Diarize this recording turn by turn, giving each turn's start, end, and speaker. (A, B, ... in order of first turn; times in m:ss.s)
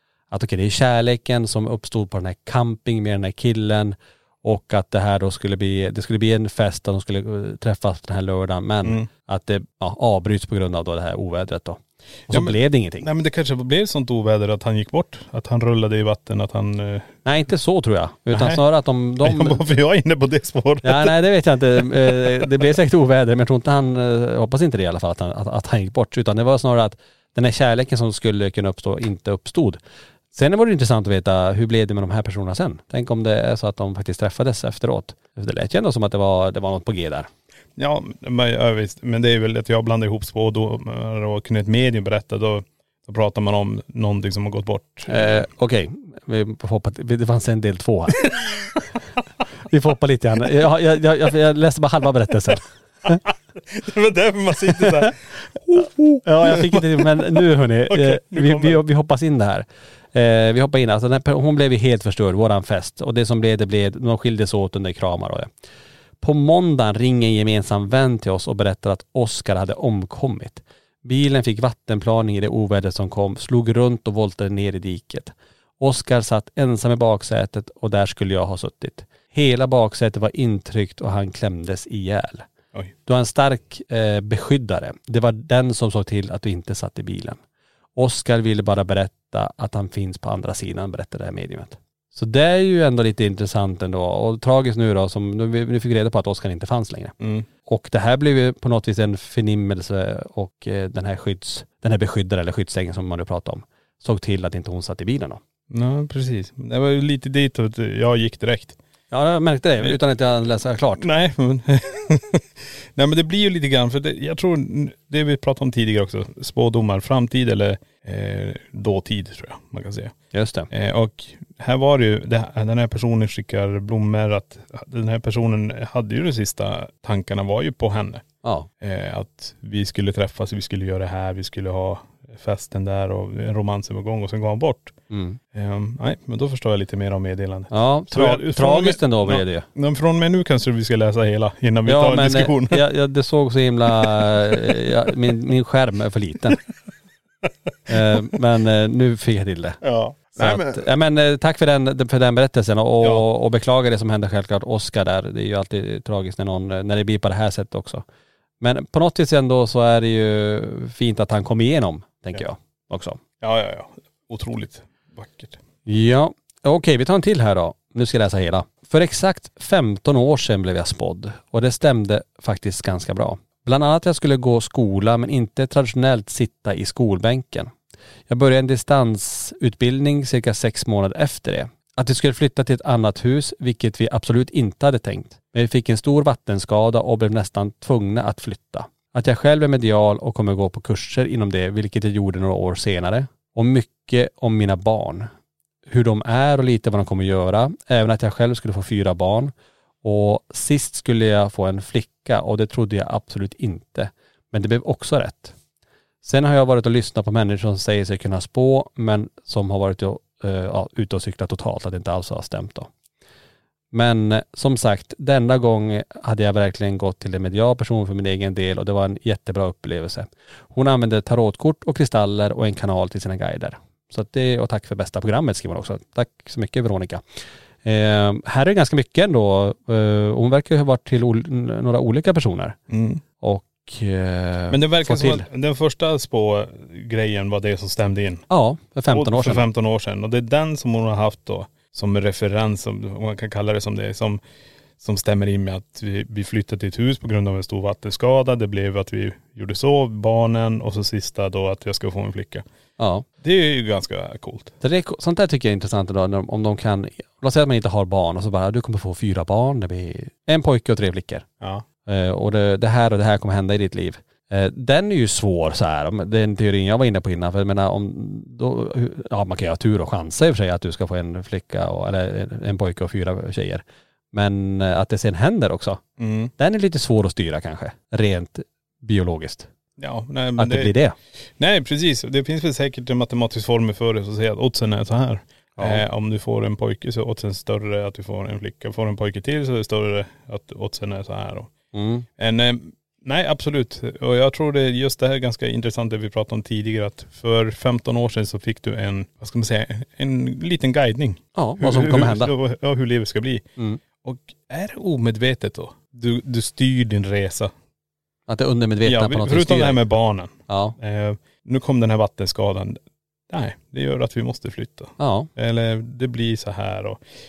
0:00.3-0:13.1 A
0:08.8-0:09.1 B
0:12.3-0:17.1 B
0:17.3-0:19.6 A
0:18.3-0:18.6 B
0:19.2-0:21.2 B
0:20.8-0:29.8 A
0:30.3-0:37.3 A
0:37.8-0:45.5 B
0:45.1-0:48.3 A
0:49.7-0:53.2 A
0:53.1-0:57.2 B
0:56.2-1:05.5 A
0:57.9-0:58.8 B
1:06.2-1:22.5 A
1:23.1-1:27.4 A
1:28.0-1:45.4 A
1:37.2-1:37.5 B
1:45.7-1:48.8 B
1:49.1-1:51.0 A
1:51.0-2:00.1 B
2:00.3-2:00.7 A
2:00.7-2:08.2 B
2:08.8-2:14.9 B
2:15.1-2:15.4 A
2:15.5-2:22.8 B
2:17.7-2:19.7 A
2:21.9-2:26.6 A
2:27.9-2:29.8 A
2:29.8-2:30.9 B
2:30.4-2:38.0 A
2:38.6-2:43.2 A
2:43.4-2:45.6 B
2:45.9-2:57.7 A
2:58.3-3:15.3 A
3:15.9-3:19.5 A
3:20.0-3:25.6 A
3:26.2-3:32.9 A
3:33.9-3:47.2 A
3:47.8-3:52.8 A
3:52.9-3:53.2 B
3:53.4-3:55.4 A
3:54.7-3:58.5 B
3:58.5-3:59.6 A
3:59.1-4:04.4 B
4:05.0-4:12.6 B
4:13.0-4:13.3 A
4:13.4-4:14.8 B
4:14.8-4:21.5 A
4:22.0-4:36.0 A
4:36.2-4:36.5 B
4:36.6-4:39.7 A
4:40.0-4:40.9 B
4:40.6-4:41.2 A
4:41.6-4:51.7 B
4:45.8-4:46.0 A
4:51.9-4:52.3 A
4:52.4-5:03.7 B
5:01.6-5:02.5 A
5:04.2-5:07.7 B
5:08.5-5:10.0 A
5:09.0-5:13.0 B
5:10.7-5:11.0 A
5:13.5-5:17.2 B
5:15.2-5:15.5 A